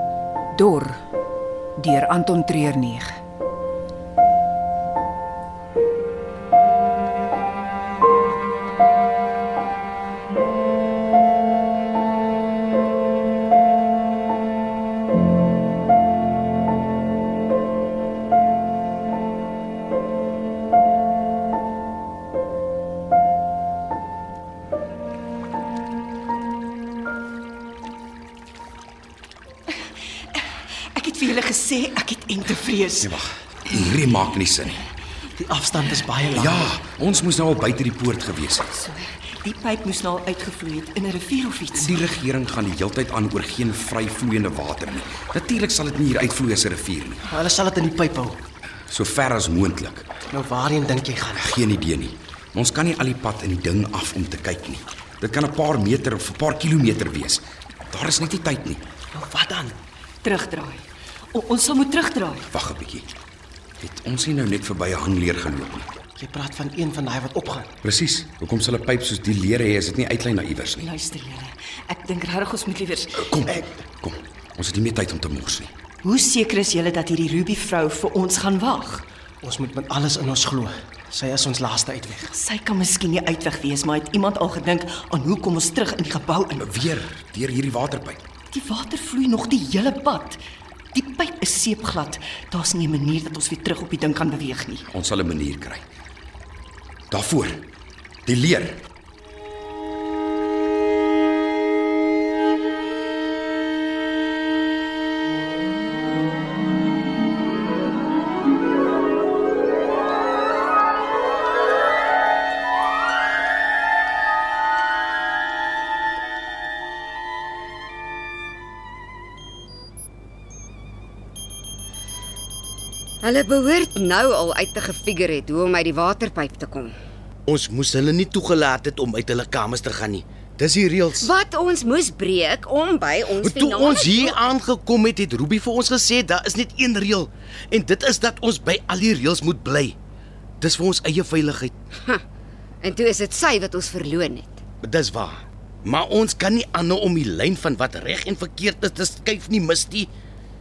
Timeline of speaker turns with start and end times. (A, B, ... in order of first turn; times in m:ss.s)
0:00.5-0:01.0 A
0:01.8-0:03.2 A
0:30.3-0:33.2 B
0:33.0-0:34.8 C
0:35.3-0:36.7 D
0:36.3-0:38.8 C
0:38.8-0:42.1 B
0:41.7-0:47.2 C
0:47.3-0:48.4 D
0:48.9-0:50.1 C
0:50.3-0:51.5 D
0:51.4-0:58.8 C
0:59.1-0:59.8 D
1:00.2-1:02.5 B
1:02.5-1:03.1 C
1:03.8-1:05.9 C
1:06.2-1:07.7 D
1:07.8-1:10.9 C
1:10.8-1:13.4 B
1:13.2-1:15.7 C
1:16.0-1:19.0 B
1:19.4-1:22.3 D
1:22.3-1:26.8 B
1:26.6-1:28.2 C
1:28.5-1:30.4 B
1:30.9-1:34.9 B
1:34.9-1:35.9 C
1:37.1-1:37.6 C
1:38.3-1:38.8 C
2:03.2-2:07.0 E
2:07.5-2:11.3 F
2:11.1-2:14.4 E
2:13.4-2:20.0 F
2:20.6-2:21.7 F
2:22.8-2:24.6 E
2:24.8-2:30.1 F